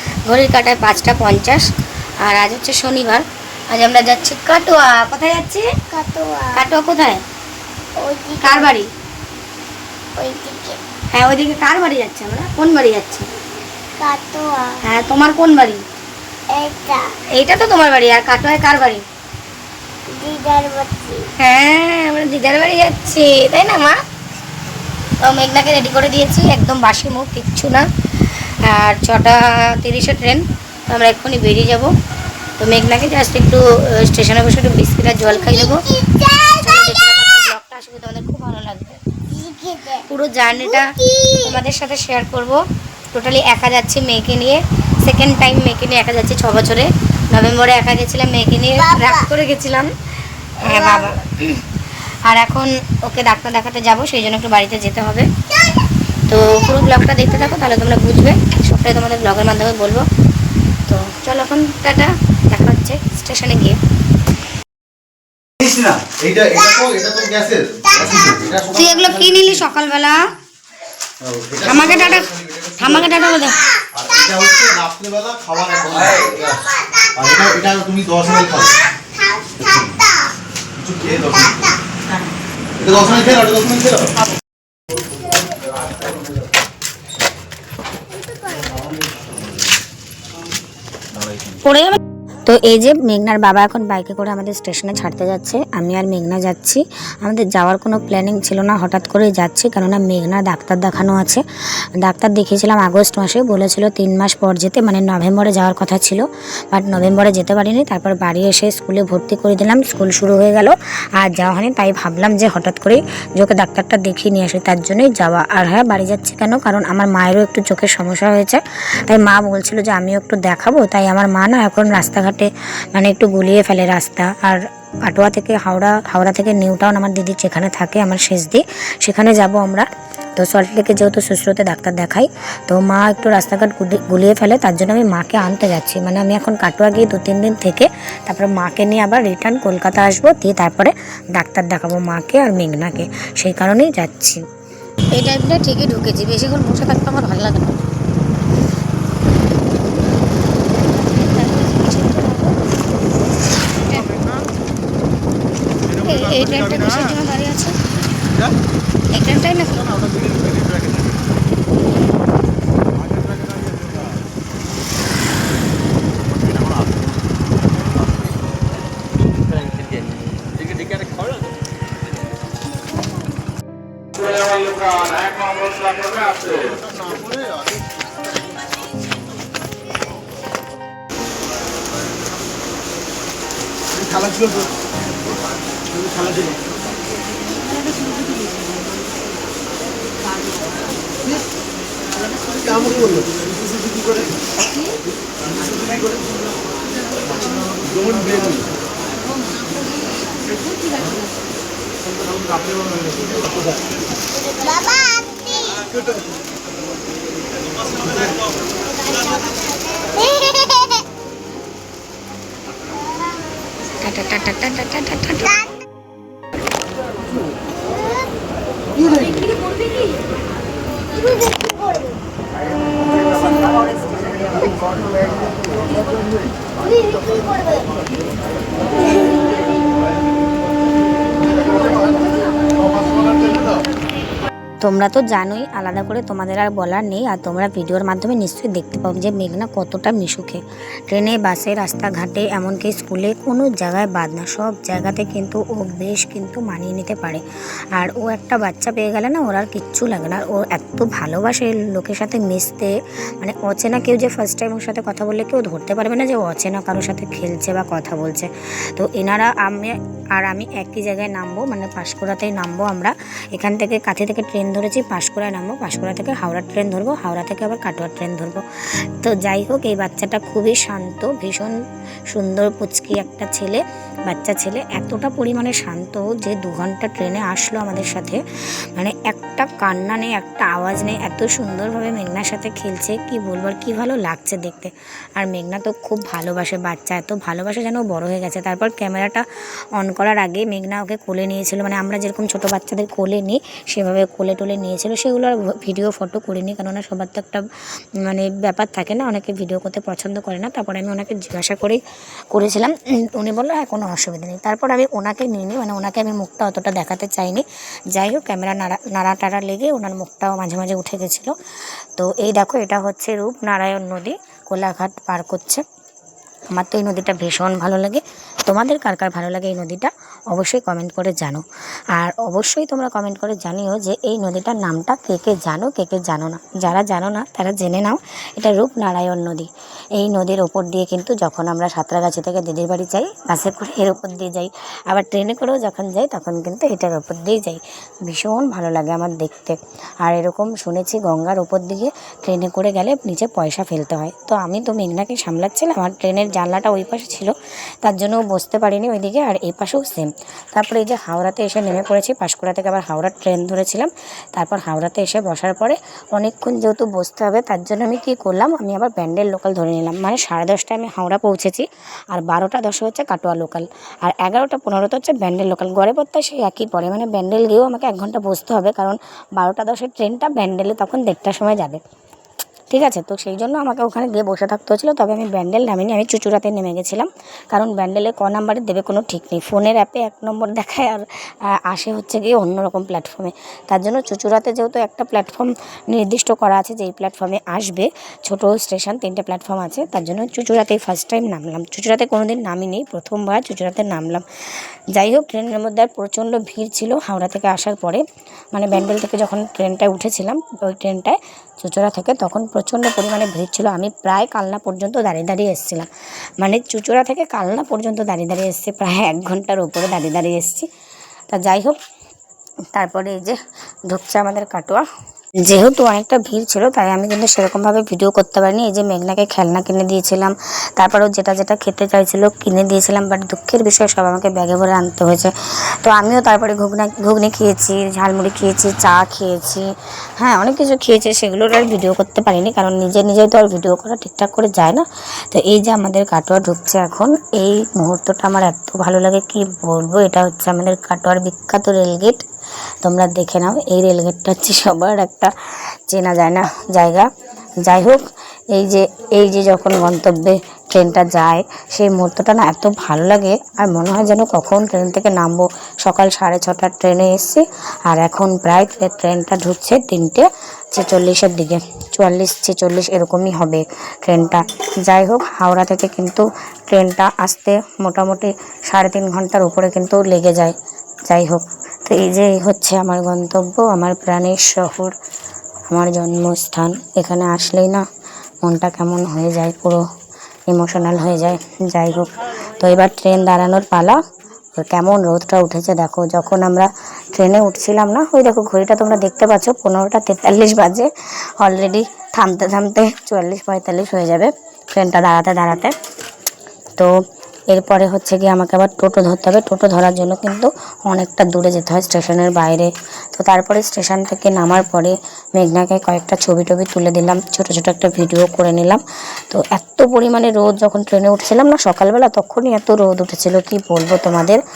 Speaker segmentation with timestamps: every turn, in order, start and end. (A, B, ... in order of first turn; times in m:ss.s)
0:00.3-0:01.7 A
0:02.2-0:05.7 A
0:05.9-0:06.6 B
0:06.5-0:07.2 A
0:08.0-0:08.8 B
0:08.4-0:08.9 A
0:10.1-0:10.8 B
0:11.1-0:13.3 A
0:14.0-0:14.8 B
0:14.8-0:15.8 A
0:16.5-0:17.2 B
0:17.3-0:19.0 A
0:20.1-0:21.3 B
0:21.4-0:24.0 A
0:25.2-0:31.9 A
0:32.6-0:35.9 A
0:35.4-0:36.6 B
0:36.5-0:39.0 A
0:39.3-0:40.0 B
0:39.9-0:42.6 A
0:40.8-0:41.4 B
0:43.1-0:49.9 A
0:50.6-0:51.6 A
0:52.2-0:55.3 A
0:56.3-1:00.1 A
1:00.9-1:03.8 A
1:05.7-1:08.8 C
1:08.7-1:10.3 A
1:11.3-1:12.9 C
1:11.6-1:13.6 A
1:13.9-1:18.8 C
1:19.2-1:19.6 B
1:20.8-1:21.7 C
1:22.8-1:24.1 C
1:31.6-1:41.4 A
1:42.0-2:09.8 A
2:10.4-2:24.4 A
2:25.1-2:27.8 A
2:31.0-2:32.6 A
2:33.7-2:34.1 A
2:35.9-2:37.8 A
2:39.1-2:39.9 A
3:24.8-3:25.7 B
3:34.0-3:35.6 A
3:54.8-4:07.4 A
4:08.0-4:28.6 A
4:29.2-4:31.7 A
4:32.3-4:38.4 A
4:39.0-4:49.4 A
4:50.0-4:57.6 A
4:58.2-5:02.0 A
5:02.5-5:11.5 A
5:12.2-5:15.8 A
5:16.7-5:21.6 A
5:22.1-6:12.0 A
6:12.9-6:34.4 A
6:35.1-6:46.1 A
6:46.6-6:50.9 A
6:51.5-6:52.0 A
6:52.9-6:53.6 A
6:54.1-6:55.0 A
6:55.6-7:05.5 A
7:06.0-7:09.9 A
7:10.4-7:22.4 A
7:23.0-7:25.5 A
7:26.1-7:27.3 A
7:27.8-7:50.7 A
7:51.3-7:55.1 A
7:55.9-7:58.0 A
7:58.6-8:00.0 A
8:00.7-8:04.2 A
8:04.8-8:15.9 A
8:17.7-8:34.6 A